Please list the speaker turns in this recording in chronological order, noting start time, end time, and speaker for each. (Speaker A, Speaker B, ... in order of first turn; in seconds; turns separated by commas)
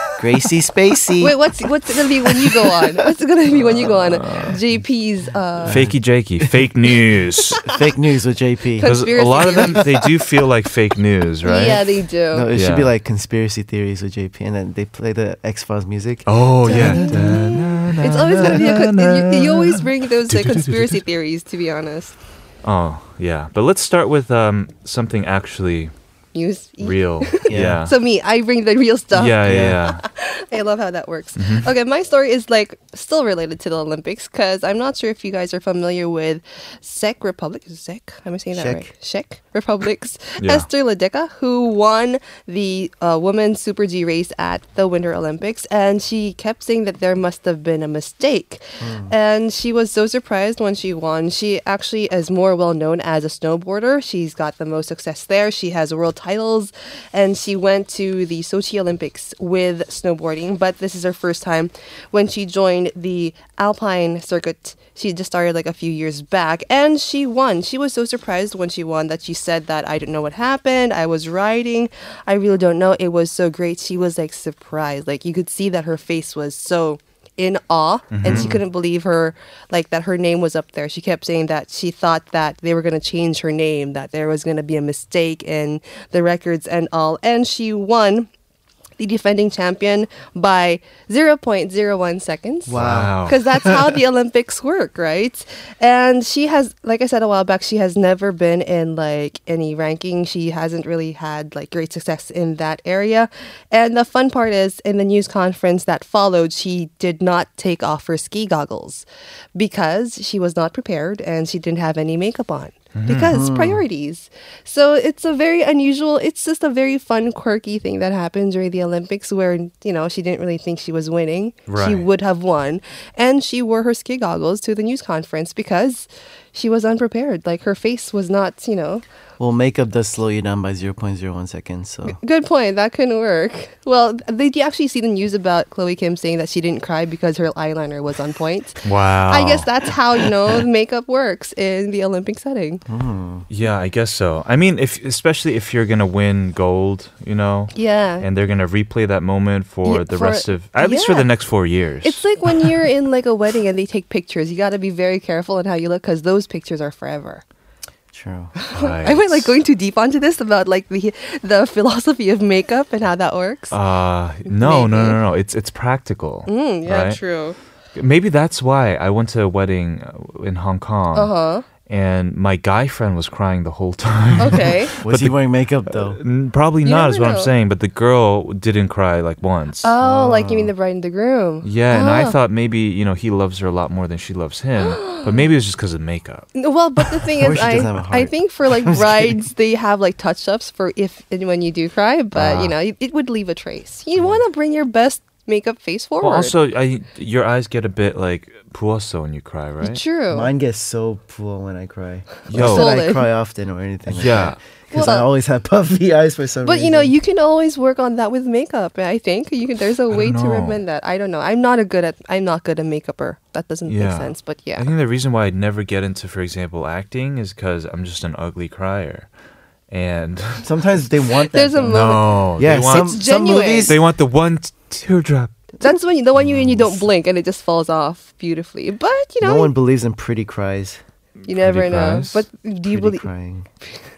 Speaker A: 0.2-1.4, Speaker B: 1.2-5.8, Speaker A: 2.5-2.8, Speaker A: 5.6-6.5, Speaker C: 5.7-7.6, Speaker A: 7.7-8.9, Speaker B: 8.8-9.8, Speaker C: 8.8-11.8, Speaker A: 9.5-10.0, Speaker B: 11.4-12.5, Speaker A: 12.3-17.6, Speaker C: 12.5-12.9, Speaker C: 16.3-21.0, Speaker B: 16.6-22.1, Speaker C: 22.6-25.9, Speaker B: 26.4-88.3, Speaker C: 26.8-27.9, Speaker A: 27.5-27.8, Speaker C: 29.1-30.0, Speaker A: 29.4-29.8, Speaker C: 31.4-31.7, Speaker A: 38.5-38.9, Speaker C: 40.4-40.7, Speaker A: 48.8-49.1, Speaker C: 78.1-78.6, Speaker A: 78.2-78.6, Speaker B: 89.0-129.0, Speaker A: 92.7-93.9, Speaker C: 92.8-93.4, Speaker C: 113.0-113.3, Speaker A: 113.3-113.8, Speaker C: 121.7-122.1, Speaker A: 129.4-132.2, Speaker B: 132.1-142.8, Speaker C: 138.8-139.7, Speaker A: 142.9-143.5, Speaker C: 143.5-152.2, Speaker B: 147.7-148.2, Speaker B: 149.8-151.3, Speaker B: 152.0-157.4, Speaker A: 158.1-158.5, Speaker B: 158.6-163.8, Speaker C: 158.7-159.5, Speaker C: 163.7-167.2, Speaker B: 164.6-165.2, Speaker B: 166.5-167.6, Speaker C: 168.0-171.3, Speaker B: 171.1-171.7, Speaker C: 171.9-179.9, Speaker B: 174.4-174.9, Speaker A: 174.4-176.2, Speaker B: 176.8-177.5, Speaker B: 179.8-182.4, Speaker A: 180.0-180.7, Speaker C: 181.6-186.5, Speaker B: 184.8-185.5, Speaker B: 186.6-196.5, Speaker A: 187.4-189.4, Speaker C: 192.3-192.8, Speaker C: 196.2-200.0, Speaker B: 199.8-200.5, Speaker A: 200.3-207.1, Speaker C: 202.5-202.9, Speaker B: 202.5-203.2, Speaker C: 204.1-204.6, Speaker B: 204.9-205.3, Speaker B: 206.6-214.9, Speaker C: 210.1-210.8, Speaker C: 213.9-219.3, Speaker C: 219.9-220.7, Speaker A: 220.6-224.0, Speaker B: 221.5-223.9, Speaker C: 221.9-223.2, Speaker C: 223.8-225.6, Speaker B: 225.8-229.7, Speaker A: 226.4-227.0, Speaker A: 229.4-231.0, Speaker C: 231.5-232.4, Speaker B: 231.5-233.3, Speaker A: 232.9-233.7